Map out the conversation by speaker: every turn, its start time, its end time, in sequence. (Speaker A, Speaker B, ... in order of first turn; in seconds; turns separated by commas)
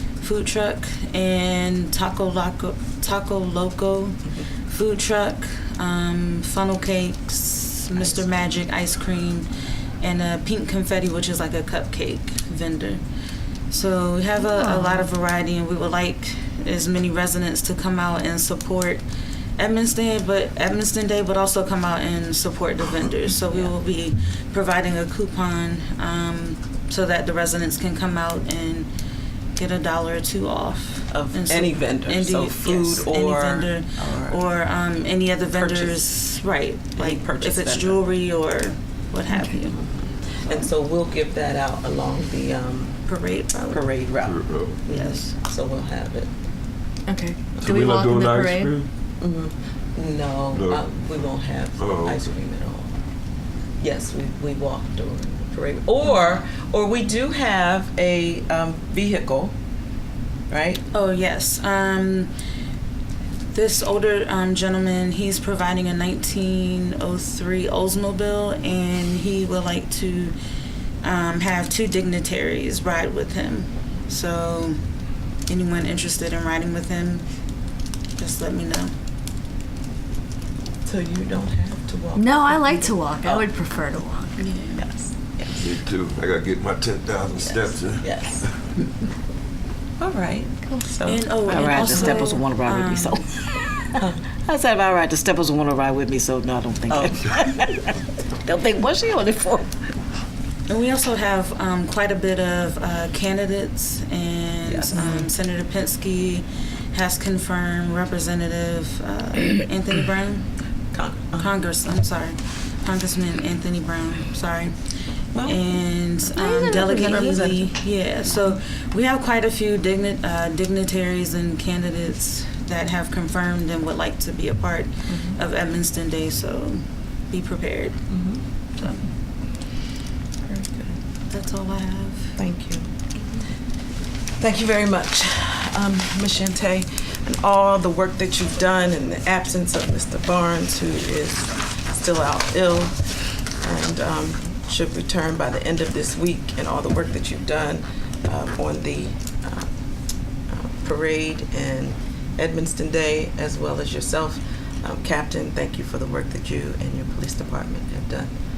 Speaker A: 0.2-9.5, Speaker B: 8.0-8.2, Speaker A: 10.0-13.0, Speaker A: 13.7-19.0, Speaker C: 14.4-15.1, Speaker A: 19.6-28.9, Speaker A: 29.6-40.7, Speaker B: 31.1-34.4, Speaker B: 35.5-36.0, Speaker B: 37.0-38.0, Speaker B: 40.4-43.0, Speaker A: 43.1-43.8, Speaker B: 43.5-46.3, Speaker D: 44.1-44.8, Speaker A: 44.9-45.3, Speaker C: 47.0-48.7, Speaker D: 47.6-48.9, Speaker B: 49.2-52.9, Speaker D: 50.5-50.9, Speaker D: 51.8-52.3, Speaker B: 53.8-59.5, Speaker B: 60.5-60.8, Speaker A: 60.9-62.3, Speaker A: 63.5-70.3, Speaker A: 71.0-74.8, Speaker A: 75.5-77.2, Speaker A: 78.2-78.9, Speaker B: 80.8-83.5, Speaker C: 82.1-84.5, Speaker A: 84.4-84.8, Speaker B: 84.8-85.8, Speaker D: 85.5-88.1, Speaker B: 87.3-88.4, Speaker B: 90.0-92.4, Speaker A: 91.0-93.2, Speaker E: 91.4-99.7, Speaker B: 96.9-97.2, Speaker A: 100.7-110.5, Speaker B: 104.7-105.3, Speaker B: 110.9-111.5, Speaker A: 111.4-114.7, Speaker B: 115.3-115.6, Speaker A: 115.4-128.0, Speaker C: 116.3-117.6, Speaker B: 116.9-117.7, Speaker B: 128.1-128.4, Speaker A: 128.8-129.1, Speaker B: 130.4-130.9, Speaker A: 131.3-132.3, Speaker B: 132.3-132.9, Speaker B: 134.4-143.0, Speaker B: 143.6-149.7, Speaker B: 150.5-158.3